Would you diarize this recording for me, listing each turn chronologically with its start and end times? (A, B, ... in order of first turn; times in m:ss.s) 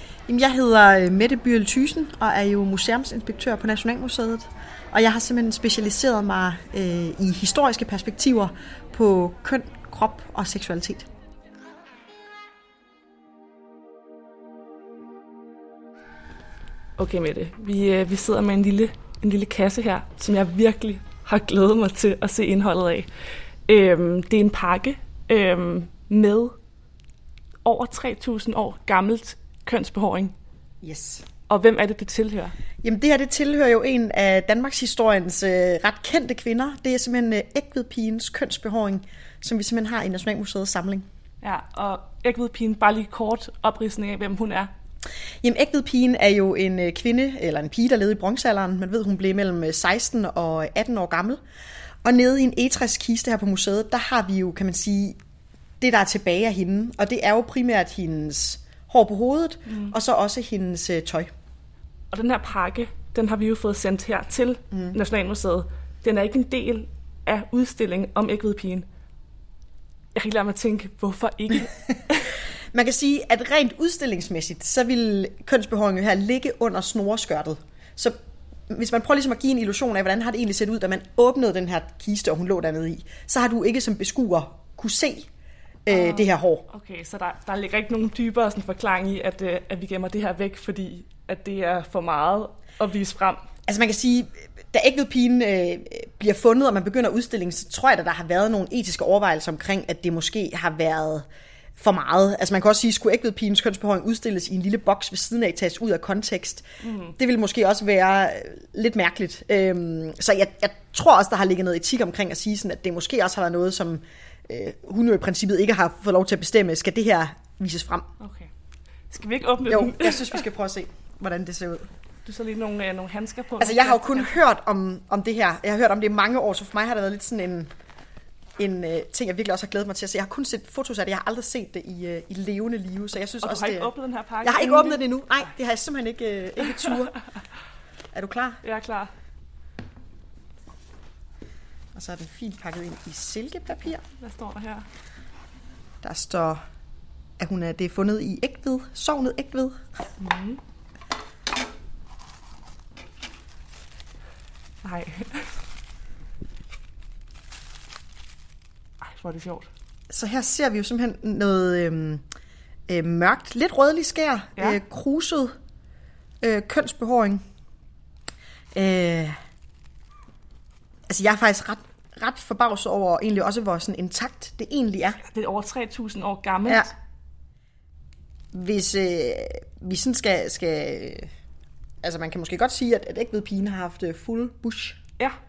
0:00.3-0:11.1 A
0:17.0-0:23.1 B
0:23.7-0:26.6 B
0:27.6-0:30.3 B
0:30.8-0:31.3 A
0:31.5-0:32.6 B
0:32.8-0:41.1 A
0:41.4-0:44.7 B
0:45.4-0:51.4 A
0:52.0-0:55.2 A
0:55.8-1:01.3 A
1:02.1-1:08.9 B
1:04.7-1:05.0 A
1:10.2-1:12.4 B
1:12.7-1:18.2 A
1:18.7-1:25.3 A
1:25.9-1:26.7 A
1:25.9-1:33.4 B
1:33.7-1:58.1 A
1:46.8-1:47.1 B
1:58.2-1:58.5 B
1:59.1-2:00.5 B
1:59.7-2:01.9 A
2:02.2-2:04.4 B
2:03.6-2:07.7 A
2:08.6-2:13.9 A
2:13.4-2:15.0 B
2:14.4-2:17.2 A
2:18.1-2:18.6 A
2:18.6-2:19.1 B
2:22.0-2:24.0 A
2:24.2-2:24.9 B
2:26.0-2:26.6 A
2:27.4-2:29.8 A
2:30.2-2:30.6 B
2:34.8-2:35.6 B
2:39.0-2:39.7 B
2:40.1-2:42.2 A
2:42.9-2:45.6 A
2:46.4-2:47.4 A
2:48.7-2:49.4 A
2:51.1-2:55.2 A
2:55.3-2:56.9 B
2:58.5-3:01.3 A
3:02.0-3:05.0 A